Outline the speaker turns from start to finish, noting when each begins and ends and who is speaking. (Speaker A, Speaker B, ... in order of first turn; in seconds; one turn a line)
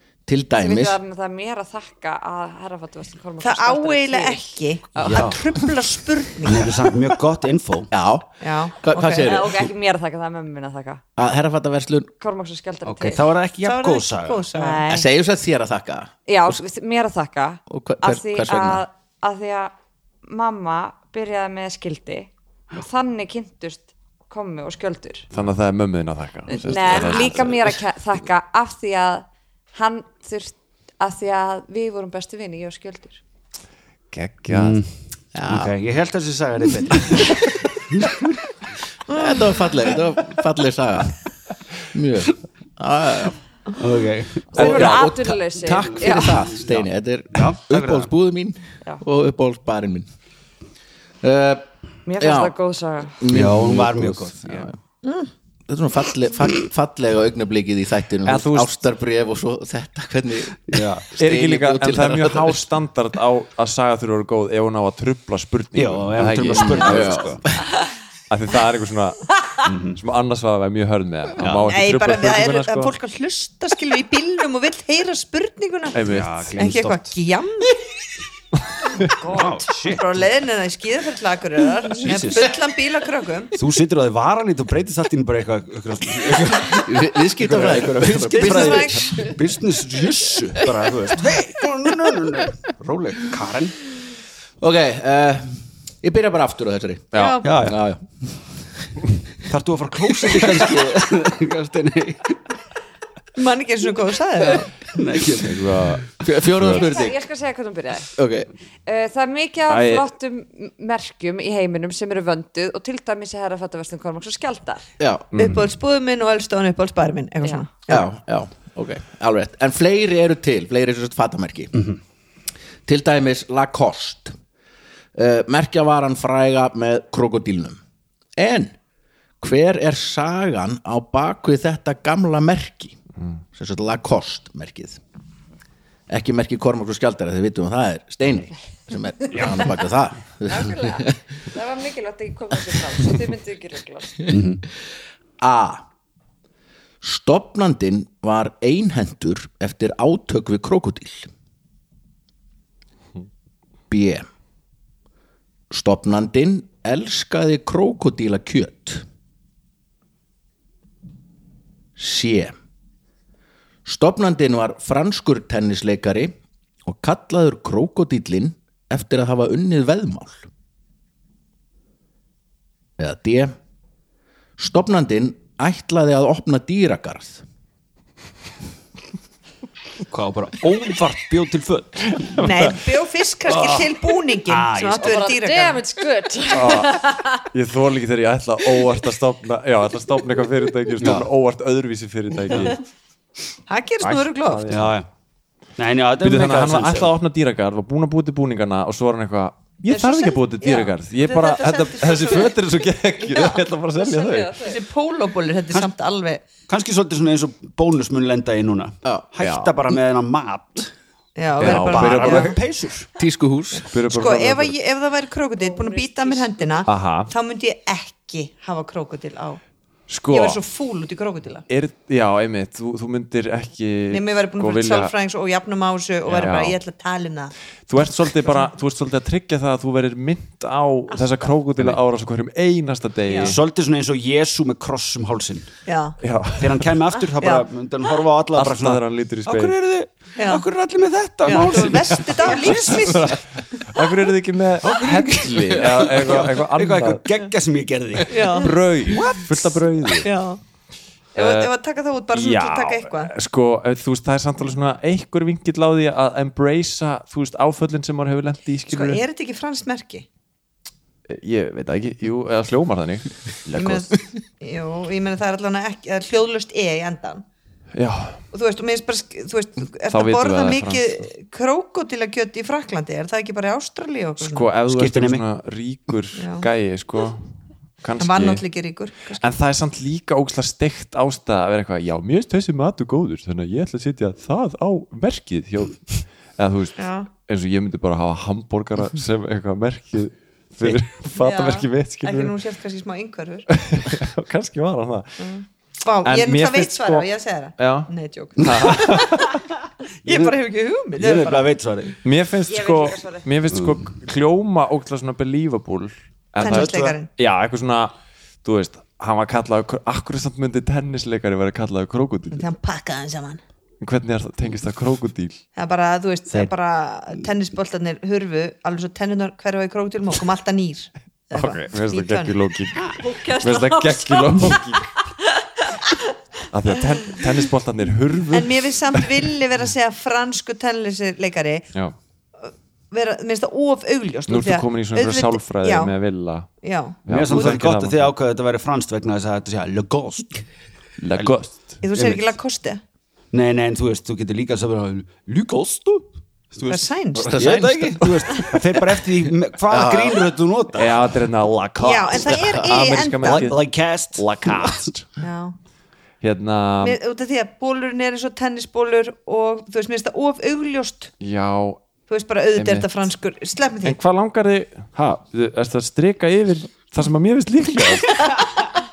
Speaker A: 0.3-1.0
Speaker B: 0.6-5.4
Speaker C: 3.4-6.9
Speaker D: 5.0-5.4
Speaker D: 6.4-7.9
Speaker A: 7.9-9.7
Speaker C: 8.4-9.3
Speaker B: 9.2-11.0
Speaker A: 11.2-12.1
Speaker B: 12.2-13.3
Speaker D: 12.8-14.4
Speaker C: 13.6-14.8
Speaker B: 14.5-15.1
Speaker A: 14.8-16.6
Speaker B: 16.3-19.7
Speaker A: 17.7-18.8
Speaker B: 20.2-25.2
Speaker E: 25.3-27.8
Speaker B: 26.5-33.2
Speaker E: 34.1-34.8
Speaker D: 34.5-38.3
Speaker A: 35.3-35.7
Speaker A: 39.1-41.1
Speaker C: 39.1-39.4
Speaker A: 41.9-43.4
Speaker D: 43.8-44.8
Speaker B: 44.5-46.4
Speaker A: 44.5-50.1
Speaker E: 44.6-45.0
Speaker D: 46.0-46.7
Speaker D: 47.3-48.1
Speaker A: 51.2-51.6
Speaker B: 52.0-53.2
Speaker A: 52.2-52.5
Speaker A: 53.2-54.8
Speaker D: 53.3-54.7
Speaker C: 55.0-55.3
Speaker A: 55.7-62.6
Speaker E: 58.2-58.7
Speaker D: 60.7-61.1
Speaker E: 61.2-67.2
Speaker D: 65.7-67.4
Speaker A: 66.7-67.4
Speaker E: 68.3-69.3
Speaker D: 69.6-70.0
Speaker E: 69.9-73.0
Speaker D: 71.4-71.7
Speaker C: 71.7-77.8
Speaker E: 75.9-76.5
Speaker D: 76.0-77.1
Speaker C: 79.1-83.5
Speaker D: 79.2-80.0
Speaker D: 82.0-82.5
Speaker D: 83.5-93.8
Speaker A: 86.6-89.2
Speaker C: 88.2-89.3
Speaker A: 94.6-97.1
Speaker E: 97.1-97.4
Speaker C: 97.1-97.5
Speaker D: 97.4-97.8
Speaker A: 97.6-98.3
Speaker D: 99.5-102.4
Speaker A: 100.2-100.9
Speaker C: 103.3-104.7
Speaker D: 104.9-105.9
Speaker E: 105.3-106.9
Speaker A: 106.2-107.2
Speaker B: 106.7-108.1
Speaker A: 108.2-108.5
Speaker B: 108.8-114.8
Speaker E: 109.7-110.1
Speaker A: 115.0-115.3
Speaker E: 115.3-115.7
Speaker C: 115.4-118.1
Speaker A: 117.9-121.7
Speaker A: 122.8-124.3
Speaker A: 125.1-127.8
Speaker A: 128.3-128.7
Speaker A: 129.4-133.0
Speaker A: 133.5-135.0
Speaker A: 136.1-141.1
Speaker B: 140.5-144.3
Speaker D: 144.3-144.6
Speaker A: 145.4-145.8
Speaker A: 147.0-151.3
Speaker A: 153.9-154.2
Speaker A: 155.7-159.0
Speaker A: 162.0-162.5
Speaker A: 163.8-170.5
Speaker A: 173.0-173.5
Speaker A: 174.6-177.4
Speaker D: 180.1-182.3
Speaker C: 182.3-185.8
Speaker E: 182.4-182.7
Speaker D: 183.4-183.9
Speaker D: 184.4-185.2
Speaker B: 185.0-187.5
Speaker E: 186.5-192.8
Speaker D: 191.0-191.2
Speaker C: 193.7-194.6
Speaker E: 194.0-194.9
Speaker D: 194.7-195.1
Speaker D: 195.8-197.1
Speaker E: 196.2-204.6
Speaker C: 199.9-202.6
Speaker C: 203.3-203.6
Speaker B: 204.0-204.8
Speaker C: 204.6-206.4
Speaker D: 206.7-210.9
Speaker E: 209.4-209.7
Speaker C: 211.3-212.5
Speaker D: 211.6-213.1
Speaker E: 211.6-212.6
Speaker A: 213.2-213.9
Speaker C: 213.8-219.6
Speaker E: 213.9-214.8
Speaker B: 215.6-216.7
Speaker E: 216.8-217.3
Speaker E: 220.1-220.6
Speaker C: 220.3-221.6
Speaker E: 221.7-225.1
Speaker C: 224.1-227.5
Speaker E: 226.2-226.8
Speaker E: 227.9-233.6
Speaker C: 233.2-233.6
Speaker D: 233.4-235.7
Speaker C: 235.9-236.2
Speaker E: 236.2-236.9
Speaker D: 236.6-243.3
Speaker E: 238.6-239.8
Speaker C: 240.4-240.6
Speaker C: 241.4-243.4
Speaker E: 241.7-247.2
Speaker D: 244.8-249.8
Speaker C: 248.3-248.8
Speaker E: 248.5-250.3
Speaker C: 250.2-250.6
Speaker C: 251.3-253.3
Speaker E: 251.3-251.7
Speaker E: 252.3-259.2
Speaker C: 258.9-260.2
Speaker E: 261.3-264.1
Speaker C: 263.7-267.4
Speaker E: 267.9-268.4
Speaker C: 268.5-274.7
Speaker E: 270.1-271.2
Speaker E: 274.4-278.6
Speaker D: 274.9-275.4
Speaker C: 276.4-276.6
Speaker C: 278.2-279.5
Speaker E: 279.4-292.6
Speaker C: 287.0-287.3
Speaker C: 291.4-293.7
Speaker E: 293.7-295.4
Speaker C: 295.4-299.6
Speaker E: 296.2-299.6
Speaker C: 300.2-301.7
Speaker D: 300.2-300.6
Speaker D: 301.1-302.2
Speaker E: 302.2-312.7
Speaker B: 302.7-303.4
Speaker D: 303.7-304.0
Speaker C: 306.6-307.3
Speaker D: 306.6-306.9
Speaker C: 312.5-313.6
Speaker E: 314.0-315.6
Speaker C: 315.8-322.5
Speaker E: 321.5-325.1
Speaker B: 323.2-326.2
Speaker E: 326.7-329.4
Speaker C: 328.5-331.9
Speaker C: 332.6-336.1
Speaker E: 334.5-336.7
Speaker C: 336.8-337.8
Speaker E: 337.2-338.3
Speaker D: 337.3-340.6
Speaker E: 341.2-342.0
Speaker C: 342.0-343.0
Speaker D: 342.1-342.5
Speaker D: 343.5-351.2
Speaker C: 346.9-347.6
Speaker A: 347.3-348.4
Speaker A: 349.9-350.4
Speaker E: 350.9-353.8
Speaker C: 352.0-353.7
Speaker D: 353.4-355.1
Speaker E: 354.3-355.2
Speaker C: 355.4-355.7
Speaker E: 356.4-357.2
Speaker C: 357.0-361.3
Speaker E: 361.4-362.0
Speaker C: 362.3-364.2
Speaker E: 362.8-363.1
Speaker E: 364.0-368.5